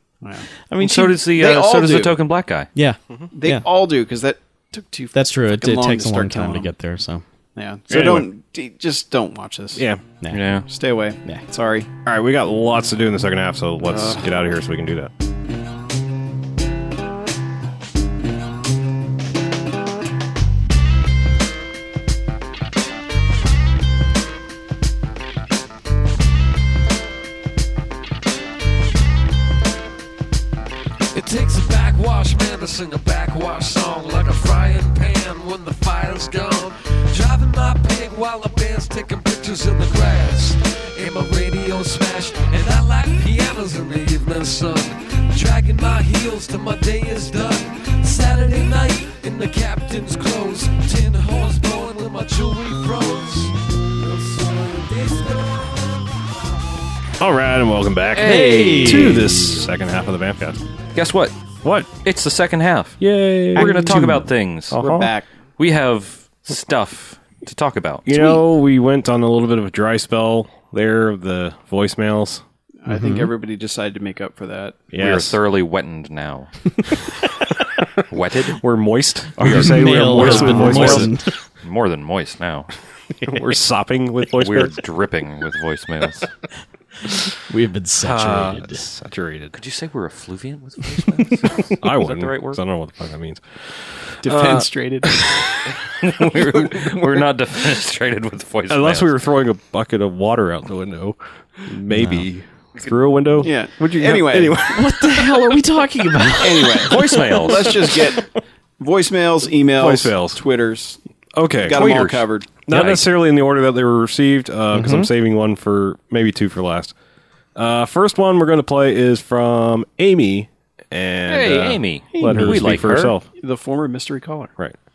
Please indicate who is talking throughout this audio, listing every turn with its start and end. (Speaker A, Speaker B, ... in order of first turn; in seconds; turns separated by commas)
Speaker A: 0.2-0.5, Speaker B: 0.7-1.2, Speaker C: 0.8-2.7, Speaker A: 1.3-2.2, Speaker B: 2.8-3.6, Speaker A: 3.3-6.7, Speaker B: 5.1-7.2, Speaker A: 7.6-9.9, Speaker D: 7.9-8.3, Speaker D: 9.8-10.0, Speaker B: 10.2-10.6, Speaker C: 10.3-10.7, Speaker A: 10.7-11.9, Speaker D: 12.1-15.1, Speaker A: 13.9-14.2, Speaker E: 31.1-56.1, Speaker D: 57.2-60.6, Speaker B: 58.2-59.6, Speaker C: 58.4-59.0, Speaker C: 60.9-61.4, Speaker D: 61.6-62.0, Speaker C: 61.9-64.8, Speaker D: 63.0-64.1, Speaker B: 63.5-64.3, Speaker D: 64.7-65.1, Speaker A: 64.8-65.3, Speaker C: 65.6-68.1, Speaker D: 68.1-72.4, Speaker A: 72.8-74.8, Speaker B: 72.9-73.3, Speaker D: 74.9-75.4, Speaker C: 75.0-77.0, Speaker C: 78.1-78.6, Speaker D: 78.6-81.1, Speaker C: 79.4-82.7, Speaker B: 79.5-81.3, Speaker D: 83.3-84.8, Speaker C: 84.4-86.3, Speaker B: 87.5-88.8, Speaker D: 88.0-89.6, Speaker C: 89.5-92.6, Speaker D: 91.7-95.4, Speaker A: 94.2-95.3, Speaker C: 96.0-99.1, Speaker D: 96.0-97.3, Speaker D: 98.7-105.6, Speaker B: 102.0-102.2, Speaker A: 103.4-104.6, Speaker B: 104.7-107.0, Speaker A: 106.4-111.0, Speaker D: 106.9-108.2, Speaker C: 106.9-107.7, Speaker D: 109.8-110.4, Speaker D: 111.4-116.9, Speaker A: 111.6-112.5, Speaker C: 112.7-113.0, Speaker B: 114.7-115.1, Speaker D: 117.6-123.3, Speaker C: 121.3-123.1, Speaker B: 122.2-122.6, Speaker A: 123.4-124.5